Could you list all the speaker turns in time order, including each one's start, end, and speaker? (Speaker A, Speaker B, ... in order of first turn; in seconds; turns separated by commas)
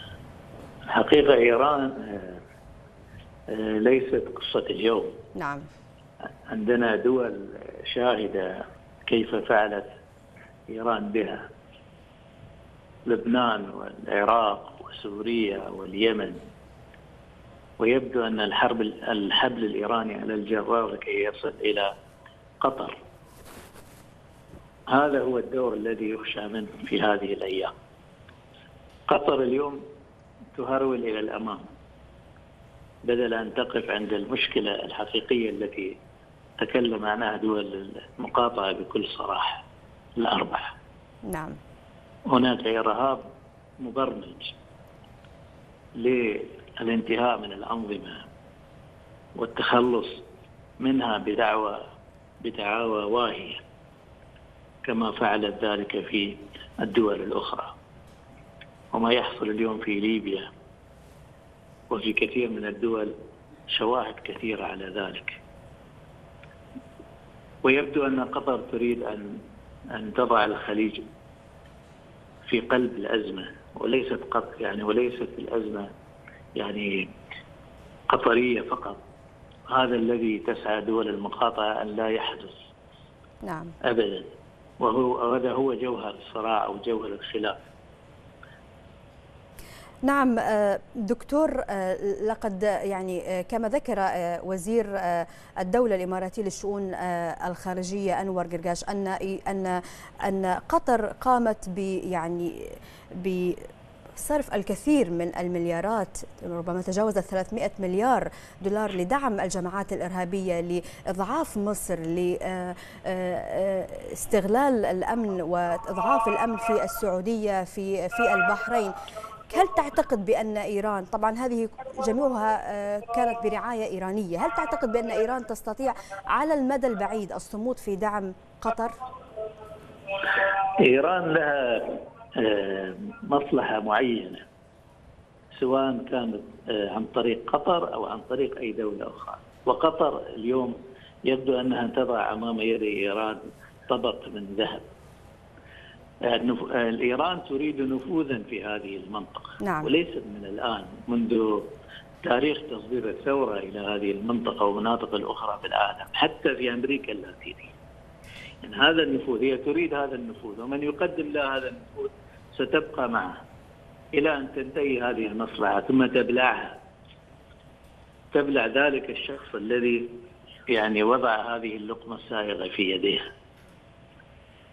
Speaker A: 0.9-2.4, Speaker A: 3.5-5.2, Speaker B: 5.3-5.7, Speaker A: 6.5-9.9, Speaker A: 10.7-11.4, Speaker A: 13.1-16.4, Speaker A: 17.8-21.9, Speaker A: 22.6-23.0, Speaker A: 24.9-27.7, Speaker A: 29.1-29.8, Speaker A: 30.5-31.6, Speaker A: 33.0-36.0, Speaker A: 36.6-39.6, Speaker A: 40.2-40.7, Speaker B: 41.2-41.6, Speaker A: 42.3-43.2, Speaker A: 43.8-44.5, Speaker A: 46.0-48.2, Speaker A: 49.4-50.2, Speaker A: 50.8-51.8, Speaker A: 52.4-53.6, Speaker A: 54.8-57.7, Speaker A: 58.9-60.5, Speaker A: 61.9-63.1, Speaker A: 63.7-65.4, Speaker A: 67.6-69.4, Speaker A: 69.9-71.0, Speaker A: 72.5-75.9, Speaker A: 76.5-77.1, Speaker A: 78.1-79.0, Speaker A: 79.7-82.6, Speaker B: 83.4-83.7, Speaker A: 83.8-87.5, Speaker B: 90.0-118.9, Speaker B: 119.5-129.0, Speaker A: 130.7-134.4, Speaker A: 135.6-140.7, Speaker A: 141.2-144.8, Speaker A: 146.2-151.7, Speaker B: 149.6-149.9, Speaker A: 152.2-157.7, Speaker A: 158.6-163.3, Speaker A: 164.1-166.8, Speaker A: 168.3-173.3